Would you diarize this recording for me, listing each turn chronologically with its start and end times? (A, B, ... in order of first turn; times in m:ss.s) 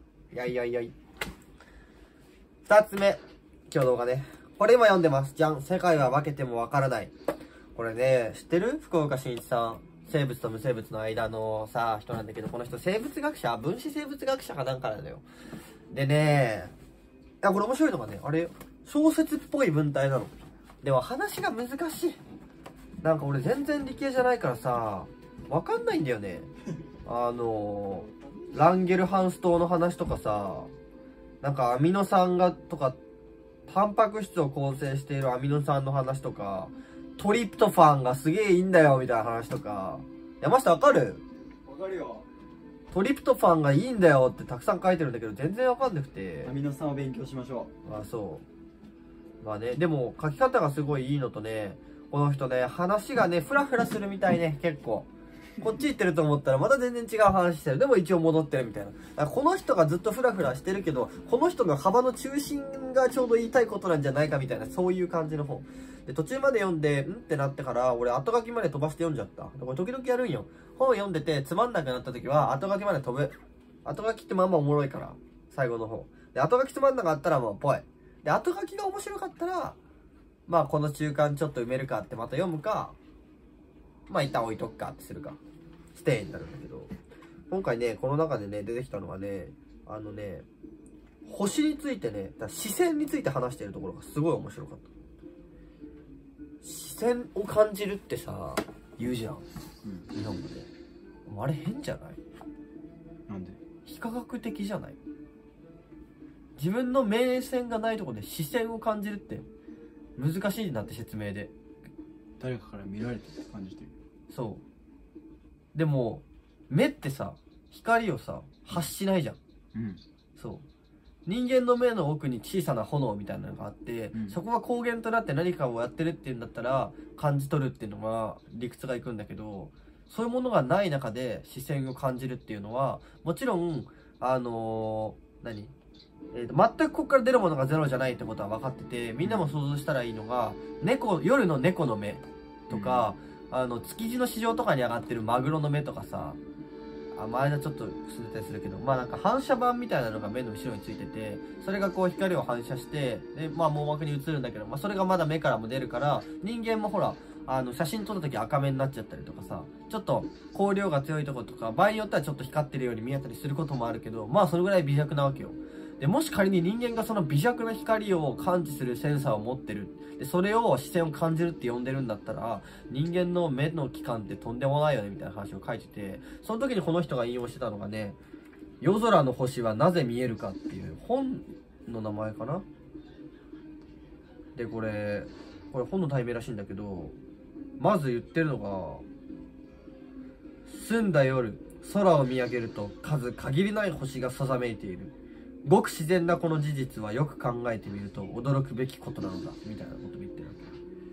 0:00.3-0:01.0 A
0:02.7-0:07.1 A
0:07.8-0:15.2 A
0:15.9-0:16.7 A
0:17.4-0:22.2 A
0:23.0-0:26.5 A
0:27.0-0:30.7 A
0:31.4-0:33.0 A
0:33.7-0:41.2 A
0:41.6-0:42.2 B
0:42.9-0:46.5 A
0:46.4-0:47.7 B
0:47.8-0:48.4 A
0:49.4-0:55.1 A
0:55.6-1:13.3 A
1:13.8-1:19.8 A
1:20.5-1:23.0 A
1:24.1-1:25.4 A
1:25.9-1:26.9 A
1:27.5-1:30.5 A
1:31.2-1:34.9 A
1:36.6-1:39.4 A
1:40.1-1:40.7 A
1:41.3-1:42.2 A
1:43.3-1:43.6 B
1:43.8-1:45.0 A
1:46.6-1:49.4 A
1:50.2-1:51.5 A
1:52.4-1:53.9 B
1:54.3-1:54.6 A
1:55.7-1:59.4 A
1:59.7-2:00.0 B
2:00.4-2:00.6 A
2:01.3-2:15.7 A
2:16.3-2:26.4 A
2:19.2-2:19.6 B
2:22.7-2:23.1 B
2:27.1-2:58.2 A
2:58.8-3:02.6 A
3:04.6-3:07.2 A
3:07.8-3:09.0 A
3:10.7-3:15.1 A
3:15.6-3:20.8 A